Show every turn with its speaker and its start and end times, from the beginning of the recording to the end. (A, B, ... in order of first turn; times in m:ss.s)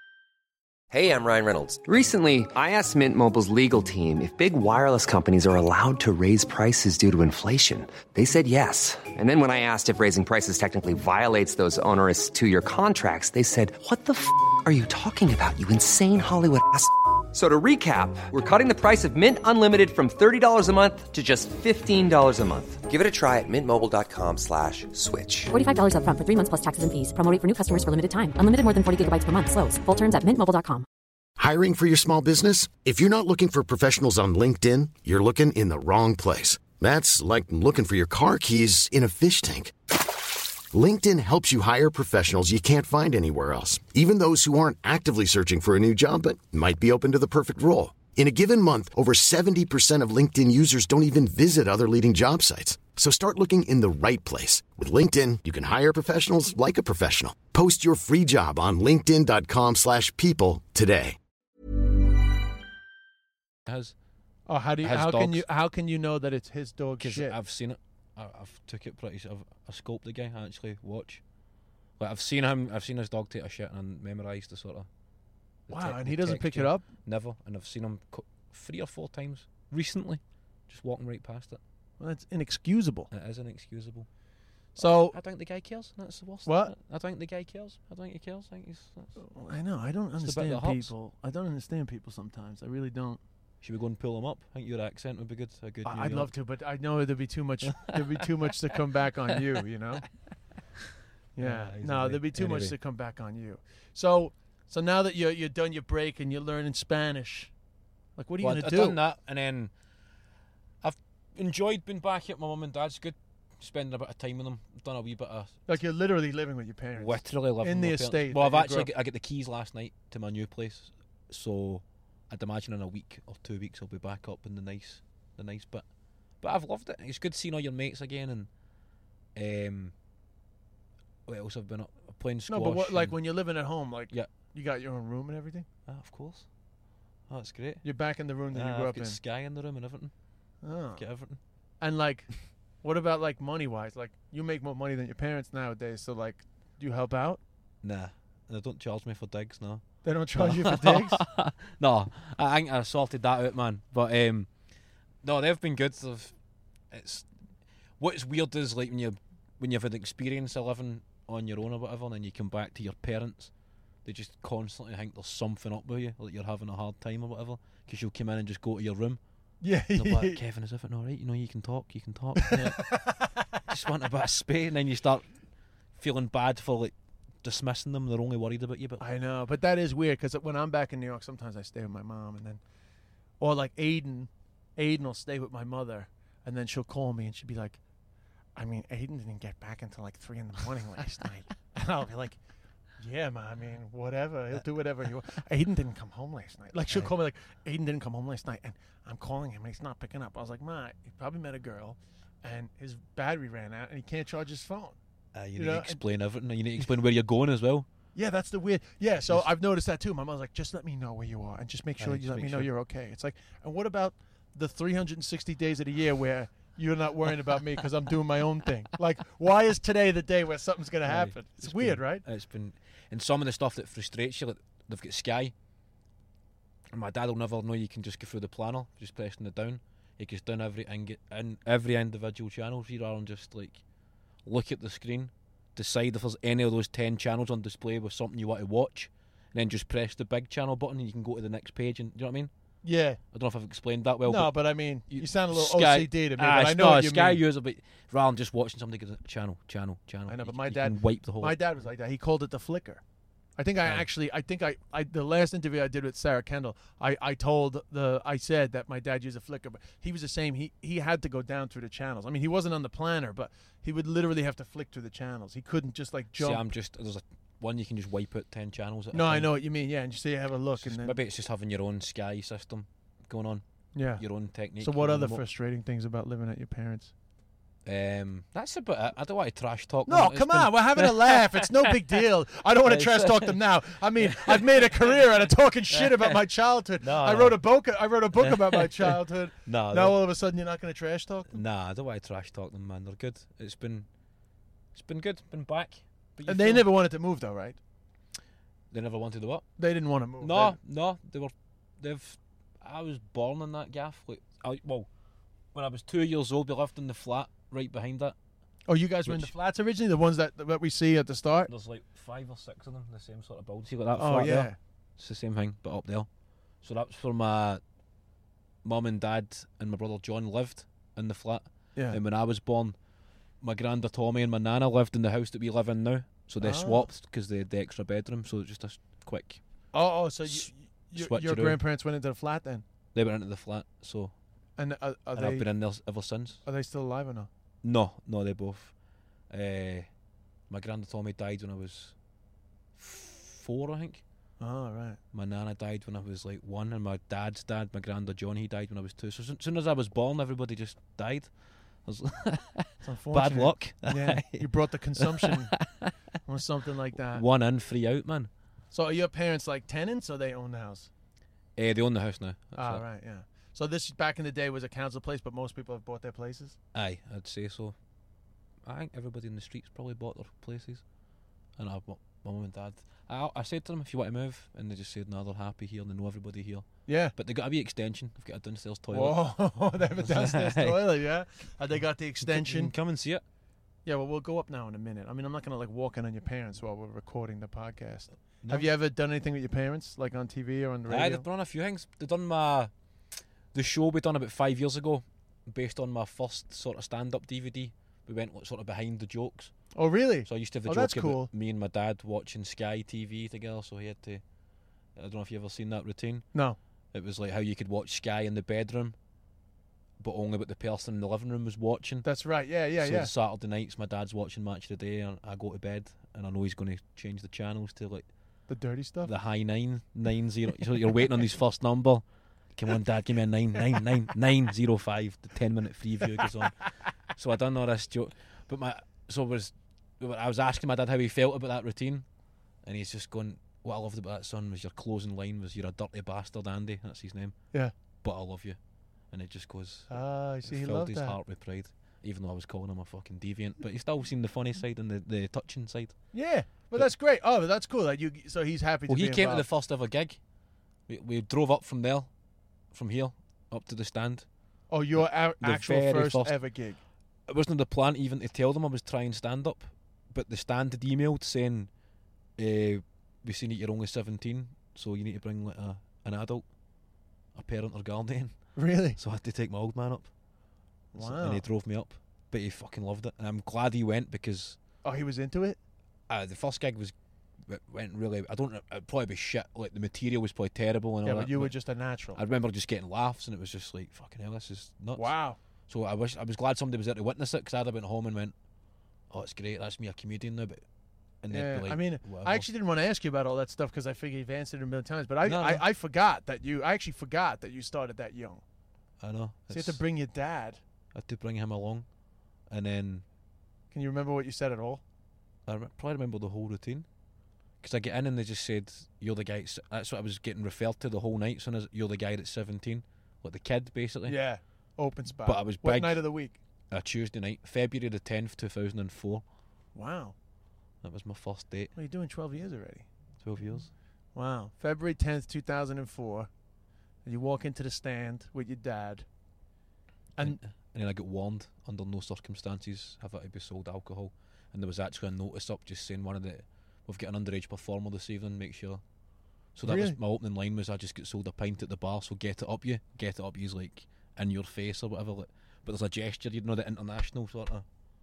0:00.9-0:25.5 A
0:25.5-0:30.9 B
0:31.4-0:39.9 C
0:40.7-1:01.2 C
1:03.7-1:03.9 D
1:04.5-1:07.4 E
1:04.8-1:05.4 D
1:07.0-1:11.2 D
1:12.0-1:14.9 D
1:15.7-1:21.6 D
1:15.7-1:16.9 E
1:22.0-1:23.1 E
1:23.1-1:24.1 D
1:24.8-1:25.2 E
1:24.8-1:29.1 D
1:26.4-1:26.8 E
1:29.2-1:33.2 E
1:30.2-1:30.9 D
1:33.6-1:36.3 D
1:35.8-1:40.1 E
1:37.7-1:38.2 D
1:41.4-1:47.5 E
1:41.4-1:42.8 D
1:48.2-1:49.0 E
1:48.4-1:49.7 D
1:50.8-1:55.6 D
1:55.7-1:58.9 E
1:57.0-2:05.8 D
2:06.4-2:08.5 D
2:09.4-2:09.9 D
2:11.3-2:13.2 D
2:12.5-2:15.7 E
2:15.9-2:16.5 D
2:17.3-2:17.8 D
2:17.8-2:19.2 E
2:18.5-2:20.1 D
2:20.6-2:21.0 E
2:21.0-2:21.4 D
2:21.8-2:22.3 E
2:22.8-2:27.4 E
2:27.8-2:34.5 D
2:30.0-2:31.2 E
2:35.2-2:36.4 D
2:36.9-2:37.3 D
2:38.0-2:43.5 D
2:44.0-2:49.2 D
2:49.6-2:50.4 E
2:50.0-2:53.0 D
2:52.4-2:53.4 E
2:53.7-2:55.3 D
2:56.0-2:59.0 D
2:59.0-3:02.6 E
3:03.4-3:07.8 E
3:08.6-3:12.4 E
3:13.0-3:25.0 E
3:25.3-3:27.9 D
3:25.6-3:26.0 E
3:28.2-3:42.2 E
3:32.0-3:32.7 D
3:41.0-3:45.5 D
3:46.9-3:53.8 D
3:54.4-4:02.5 D
4:02.8-4:03.2 E
4:03.3-4:04.5 D
4:04.3-4:07.4 E
4:05.1-4:11.6 D
4:10.3-4:13.0 E
4:13.6-4:26.6 E
4:13.8-4:14.1 D
4:26.4-4:29.5 D
4:29.1-4:31.2 E
4:30.8-4:33.6 D
4:34.0-4:34.2 E
4:34.2-4:35.4 D
4:34.8-4:37.1 E
4:37.8-4:42.0 D
4:40.1-4:51.6 E
4:42.8-4:43.6 D
4:44.2-4:45.2 D
4:45.9-4:46.4 D
4:47.0-4:47.6 D
4:48.4-4:50.2 D
4:51.5-4:54.1 D
4:54.9-4:56.9 D
4:56.5-4:57.8 E
4:58.9-4:59.6 D
4:59.8-5:00.8 E
5:00.4-5:05.1 D
5:05.7-5:08.4 D
5:08.9-5:11.7 E
5:09.2-5:09.5 D
5:11.7-5:16.3 D
5:14.2-5:14.8 E
5:16.8-5:17.8 D
5:18.8-5:23.0 D
5:22.0-5:22.2 E
5:23.6-5:29.6 D
5:26.6-5:27.1 E
5:29.9-5:32.8 E
5:30.5-5:31.8 D
5:33.1-5:34.3 D
5:34.8-5:35.7 E
5:35.4-5:36.6 D
5:36.7-5:37.5 E
5:37.8-5:38.9 D
5:39.5-5:40.1 D
5:40.7-5:42.2 D
5:43.0-5:44.2 D
5:44.6-5:45.2 E
5:45.3-5:51.5 D
5:52.0-5:56.1 D
5:53.0-5:55.8 E
5:56.4-5:57.4 E
5:57.3-5:58.5 D
5:58.9-6:01.1 E
6:01.8-6:03.0 D
6:02.8-6:06.8 E
6:06.9-6:08.0 D
6:08.8-6:11.0 D
6:11.8-6:19.4 D
6:17.1-6:17.4 E
6:19.1-6:22.9 E
6:20.2-6:21.1 D
6:22.4-6:23.4 D
6:24.1-6:31.4 E
6:28.6-6:28.9 D
6:31.1-6:32.9 D
6:33.7-6:39.7 D
6:39.9-6:41.5 E
6:40.4-6:44.4 D
6:45.2-6:46.5 D
6:47.1-6:49.2 D
6:50.2-6:52.3 D
6:52.2-6:53.3 E
6:53.0-6:58.3 D
6:58.7-6:59.3 E
6:59.2-7:06.8 D
7:07.4-7:12.3 D
7:12.8-7:17.6 D
7:18.2-7:18.8 D
7:19.3-7:26.2 D
7:20.1-7:21.4 E
7:26.3-7:29.7 E
7:29.1-7:30.4 D
7:31.1-7:32.3 D
7:32.9-7:34.5 D
7:34.9-7:37.0 E
7:35.2-7:36.6 D
7:37.5-7:41.9 D
7:42.6-7:46.6 D
7:47.5-7:48.6 D
7:48.8-7:49.2 E
7:49.2-7:50.3 D
7:51.1-7:51.6 E
7:51.2-7:54.8 D
7:55.0-7:55.8 E
7:56.3-7:57.1 D
7:57.7-8:01.8 D
8:01.2-8:02.4 E
8:02.4-8:05.3 D
8:05.2-8:05.6 E
8:05.9-8:08.6 D
8:09.3-8:10.8 D
8:11.4-8:12.7 D
8:11.5-8:18.6 E
8:15.4-8:15.8 D
8:19.2-8:20.0 D
8:19.7-8:20.8 E
8:21.1-8:22.1 D
8:22.7-8:23.2 D
8:23.9-8:25.0 E
8:25.7-8:27.1 D
8:27.8-8:34.4 D
8:34.3-8:36.6 E
8:35.4-8:36.2 D
8:36.9-8:39.4 D
8:40.0-8:40.3 E
8:41.0-8:41.9 D
8:42.0-8:43.1 E
8:43.4-8:43.9 D
8:44.4-8:46.5 E
8:47.2-8:49.3 E
8:50.4-8:59.0 D
8:59.8-9:07.9 D
8:59.8-9:00.2 E